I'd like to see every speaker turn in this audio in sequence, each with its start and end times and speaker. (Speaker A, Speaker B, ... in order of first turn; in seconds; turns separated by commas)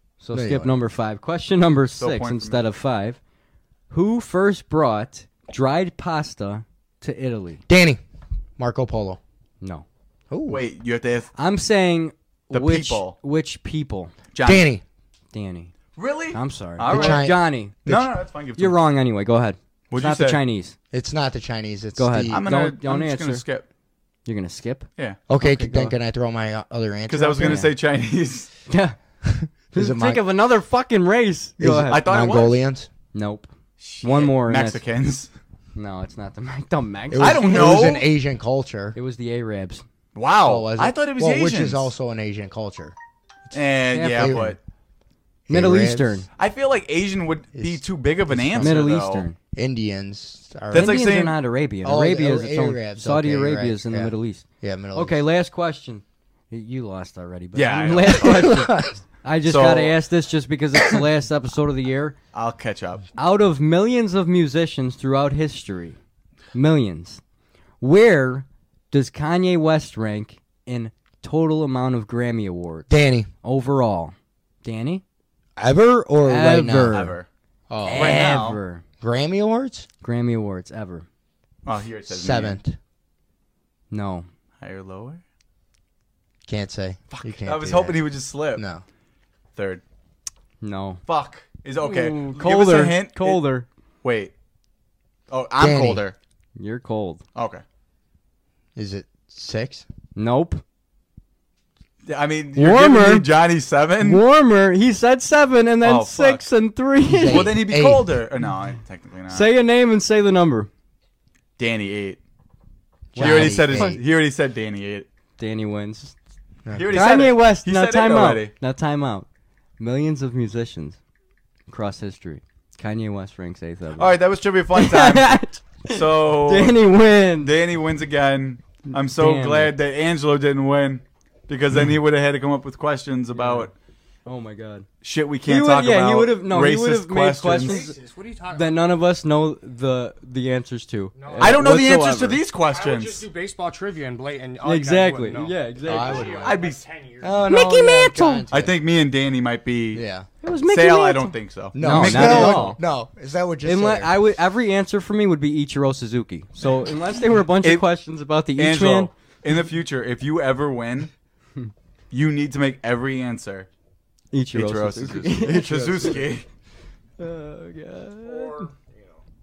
Speaker A: 0.2-3.2, Speaker B: 0.3-0.8, Speaker C: 2.0-2.6, Speaker A: 3.9-7.6, Speaker B: 7.7-8.0, Speaker B: 8.6-9.2, Speaker B: 10.3-10.6, Speaker C: 10.5-11.3, Speaker A: 11.3-14.1, Speaker C: 12.5-13.2, Speaker C: 14.3-14.7, Speaker B: 14.4-14.8, Speaker A: 15.3-15.7, Speaker C: 15.9-18.8, Speaker A: 16.3-17.8, Speaker B: 16.9-18.1, Speaker A: 18.6-20.8, Speaker C: 19.9-20.4, Speaker B: 20.9-22.4, Speaker A: 22.0-23.4, Speaker C: 22.3-23.6, Speaker A: 24.2-25.9, Speaker B: 25.3-27.7, Speaker C: 27.1-28.5, Speaker A: 27.4-27.7, Speaker A: 28.7-28.9, Speaker B: 29.2-30.2, Speaker A: 29.7-32.0, Speaker B: 31.6-32.9, Speaker C: 31.9-32.6, Speaker A: 33.1-33.5, Speaker C: 33.8-35.3, Speaker A: 34.0-34.8, Speaker A: 35.8-37.8, Speaker B: 37.1-39.0, Speaker C: 37.2-38.1, Speaker A: 38.9-39.8, Speaker C: 40.1-41.9, Speaker B: 40.4-42.9, Speaker B: 43.5-44.5, Speaker C: 43.5-44.6, Speaker A: 43.9-44.5, Speaker B: 45.5-46.2, Speaker A: 45.5-46.2, Speaker C: 46.4-49.2, Speaker B: 47.5-48.8, Speaker A: 48.5-49.4, Speaker B: 49.5-51.0, Speaker A: 50.7-62.1, Speaker C: 50.7-51.4, Speaker B: 51.8-55.2, Speaker C: 57.5-58.6, Speaker B: 58.2-58.9, Speaker C: 59.4-60.0, Speaker C: 62.3-63.0, Speaker A: 63.2-66.0, Speaker A: 66.5-67.2, Speaker A: 67.8-72.9, Speaker B: 72.9-73.3, Speaker A: 73.4-75.0, Speaker B: 75.6-77.0, Speaker A: 76.2-77.1, Speaker C: 76.9-77.3, Speaker B: 77.7-78.4, Speaker A: 77.8-78.8, Speaker C: 77.9-78.6, Speaker B: 79.0-79.9, Speaker A: 80.0-81.0, Speaker C: 81.6-82.6, Speaker B: 82.1-82.8, Speaker A: 83.9-84.3, Speaker C: 84.6-85.2, Speaker B: 86.5-88.8, Speaker C: 87.1-88.6, Speaker C: 89.5-89.8, Speaker A: 90.6-91.0, Speaker C: 91.0-93.4, Speaker A: 91.8-93.7, Speaker C: 94.0-94.3, Speaker C: 95.3-96.1, Speaker B: 95.6-96.0, Speaker A: 96.5-97.2, Speaker C: 97.3-97.6, Speaker B: 98.8-99.9, Speaker A: 100.1-100.6, Speaker C: 102.0-104.2, Speaker A: 102.5-103.3, Speaker A: 104.0-107.5, Speaker C: 105.8-106.5, Speaker B: 107.1-108.2, Speaker C: 107.3-109.5, Speaker A: 109.3-110.7, Speaker C: 111.6-112.2, Speaker B: 113.1-114.0, Speaker A: 113.2-114.0, Speaker C: 113.2-115.1, Speaker A: 115.4-116.1, Speaker B: 116.6-117.0, Speaker C: 116.7-118.5, Speaker A: 116.9-119.3, Speaker A: 119.8-121.0, Speaker A: 121.7-124.2, Speaker C: 124.0-126.8, Speaker A: 124.7-127.5, Speaker C: 127.4-133.7, Speaker A: 128.9-129.7, Speaker A: 133.3-133.7, Speaker A: 134.2-134.9, Speaker C: 135.0-137.8, Speaker A: 135.4-137.9, Speaker D: 137.6-138.8, Speaker A: 138.5-142.4, Speaker D: 141.2-141.7, Speaker C: 141.4-143.2, Speaker D: 142.7-147.5, Speaker A: 144.6-146.4, Speaker B: 145.8-146.6, Speaker C: 146.3-146.8, Speaker B: 147.2-148.7, Speaker A: 147.4-148.5, Speaker C: 148.5-150.0, Speaker B: 149.9-150.3, Speaker A: 150.4-152.8, Speaker C: 150.7-152.8, Speaker B: 151.7-154.2, Speaker A: 153.6-159.1, Speaker C: 157.6-157.9, Speaker C: 158.6-161.1, Speaker C: 162.1-163.7, Speaker A: 164.3-165.9, Speaker C: 164.5-166.4, Speaker B: 165.4-166.3, Speaker A: 167.2-168.7, Speaker D: 168.2-169.2